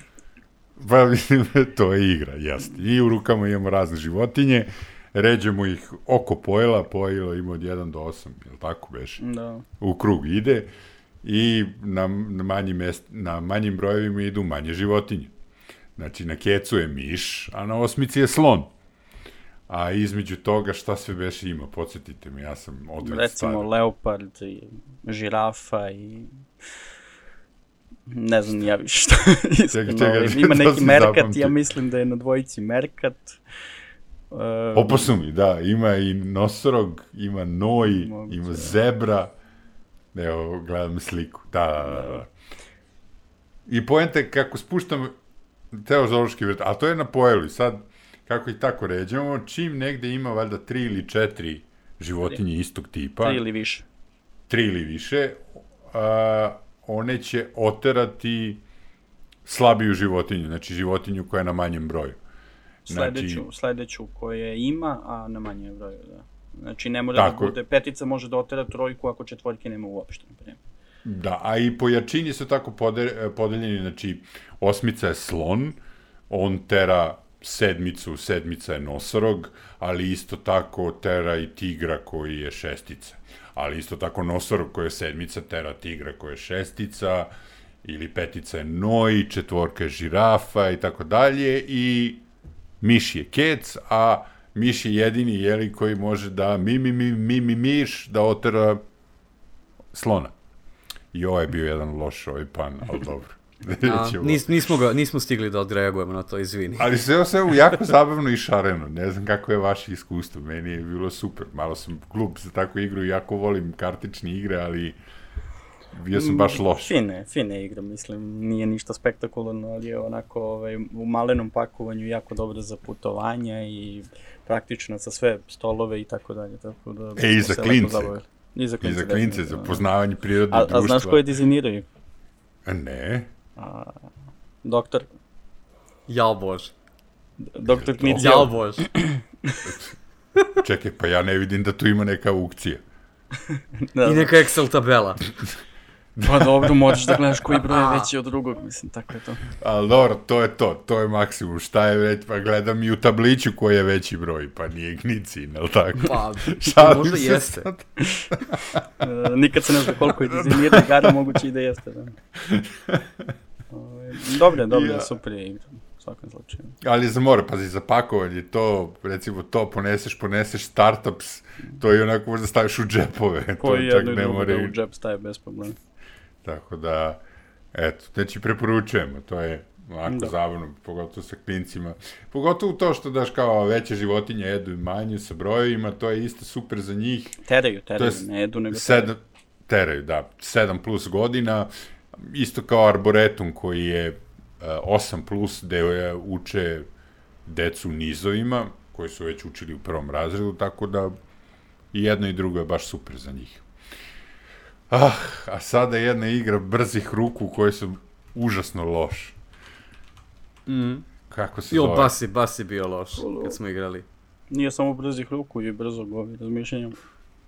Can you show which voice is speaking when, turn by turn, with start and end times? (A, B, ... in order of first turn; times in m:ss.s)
0:00.8-0:09.2 A
0:09.2-0:09.6 B
0:09.8-0:10.7 A
0:11.2-0:15.3 A
0:16.0-0:18.7 A
0:19.7-0:23.7 A
0:23.0-0:26.4 B
0:28.1-0:33.4 B
0:29.7-0:31.6 A
0:34.3-0:35.1 B
0:34.7-0:39.3 A
0:37.8-0:38.8 B
0:40.1-0:42.3 A
0:41.9-0:42.2 B
0:43.7-0:45.1 A
0:45.7-0:53.4 A
0:53.2-0:53.9 B
0:54.5-0:58.6 A
0:59.5-1:02.2 A
1:02.9-1:10.6 B
1:02.9-1:03.4 A
1:07.2-1:07.6 A
1:11.0-1:15.8 A
1:16.3-1:27.3 A
1:27.8-1:32.2 A
1:32.8-1:38.8 A
1:39.9-1:40.3 A
1:41.1-1:44.5 A
1:43.8-1:46.9 C
1:46.8-1:55.0 A
1:55.9-1:56.9 A
1:56.1-2:09.9 B
2:07.2-2:08.2 A
2:08.8-2:11.2 A
2:10.5-2:11.9 B
2:12.7-2:13.3 A
2:13.6-2:14.0 B
2:14.6-2:15.1 B
2:16.1-2:16.7 C
2:17.5-2:19.6 B
2:17.8-2:18.5 A
2:18.2-2:18.9 C
2:20.6-2:22.8 A
2:23.9-2:24.3 B
2:24.0-2:25.3 C
2:26.2-2:27.2 A
2:26.2-2:29.5 B
2:27.5-2:28.1 C
2:29.6-2:38.8 A
2:36.0-2:37.7 C
2:39.0-2:42.2 B
2:40.0-2:41.1 A
2:42.5-2:43.1 A
2:43.7-2:46.8 B
2:44.7-2:45.1 A
2:46.8-2:54.8 A
2:53.6-2:55.8 B
2:56.4-2:57.2 A
2:57.7-3:07.4 A
3:00.1-3:00.3 B
3:07.4-3:09.1 B
3:08.0-3:16.9 A
3:17.5-3:21.2 A
3:21.9-3:23.6 A
3:24.9-3:29.4 A
3:30.7-3:31.1 C
3:31.3-3:32.2 A
3:31.7-3:34.1 C
3:33.2-3:33.6 B
3:34.5-3:37.0 B